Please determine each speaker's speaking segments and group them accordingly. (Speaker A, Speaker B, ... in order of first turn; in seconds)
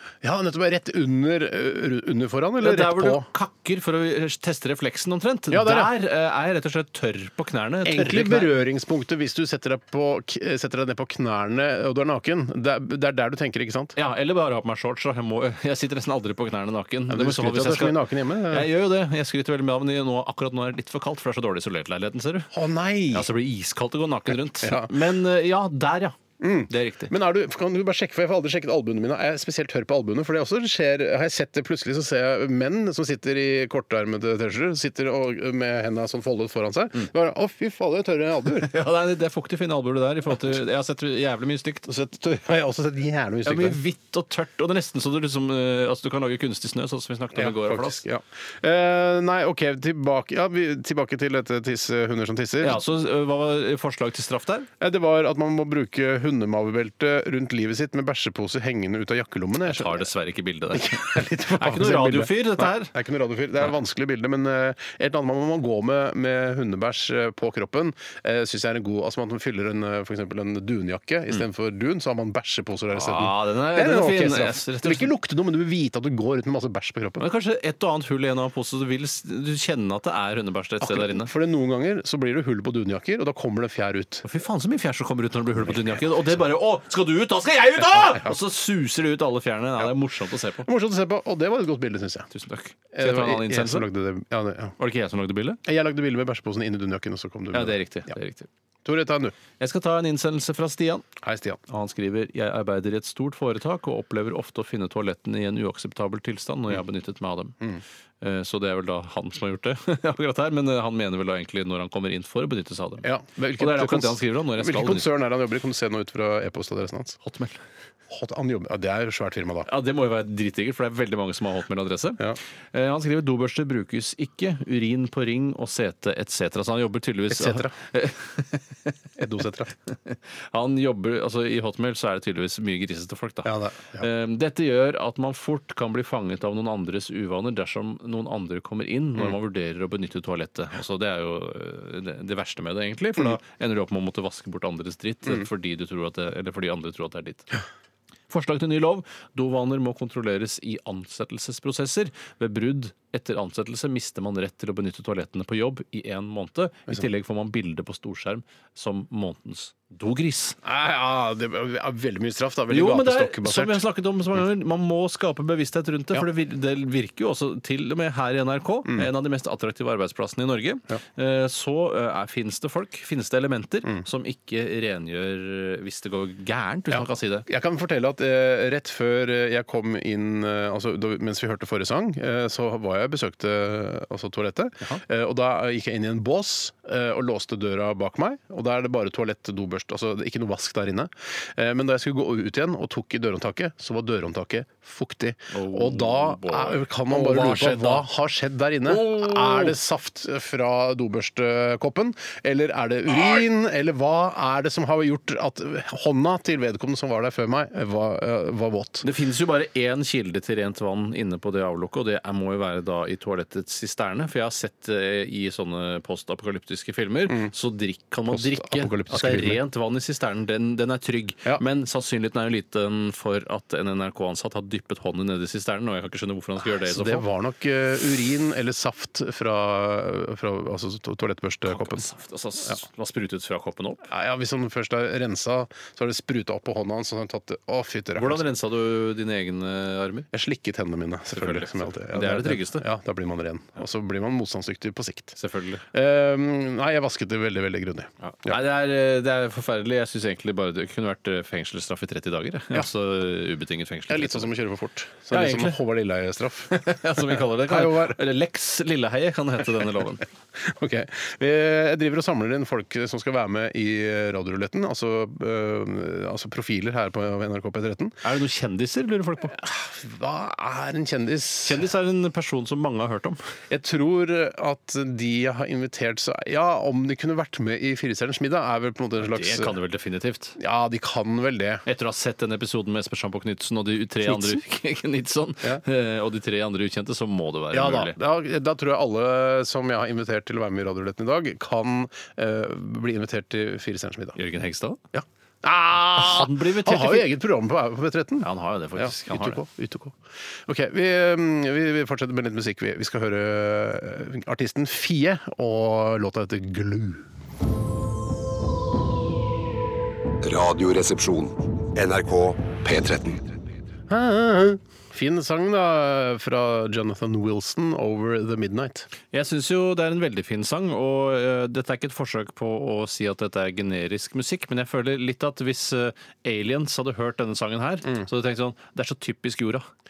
Speaker A: 0.2-3.3, 5.5-5.9, 7.8-13.9, 17.1-18.7, 22.5-23.3, 24.6-24.9, 26.4-38.7, 41.8-43.8, 47.3-52.8, 54.8-60.1, 60.7-77.2, 80.8-84.2, 85.6-86.0, 90.6-92.3, 92.9-94.7, 95.6-98.1, 98.8-99.3, 101.2-101.6, 113.0-117.2, 118.1-119.7, 127.3-127.7, 129.2-129.7, 133.4-134.1, 160.6-163.8, 176.9-209.1, 218.3-219.6, 226.6-232.0, 234.1-238.4, 240.3-245.3, 245.9-248.6, 254.1-258.2, 260.6-268.1, 269.5-271.8, 273.7-279.7, 280.6-281.8, 284.2-284.6, 287.7-294.4, 295.1-307.2, 314.1-319.1
Speaker B: 2.6-8.5, 13.9-22.5, 23.1-26.1, 26.7-27.1, 38.6-41.8, 43.4-48.0, 52.6-54.7, 59.6-62.9, 72.9-75.1, 77.2-81.3, 84.2-90.7, 92.3-93.8, 94.8-95.6, 97.5-98.5, 99.6-101.0, 101.7-107.5, 108.2-115.1, 117.2-117.6, 119.7-122.2, 122.7-128.9, 129.9-147.5, 148.3-160.6, 162.7-177.4, 195.5-198.1, 198.9-199.7, 209.0-227.2, 231.7-234.0, 238.2-240.3, 241.3-242.8, 245.3-245.8, 248.2-254.5, 255.3-255.8, 256.7-260.2, 268.2-269.6, 271.6-273.4, 279.2-280.6, 281.9-288.1, 294.3-295.0, 296.1-297.3, 298.4-299.6, 319.3-329.9
Speaker C: 310.4-313.6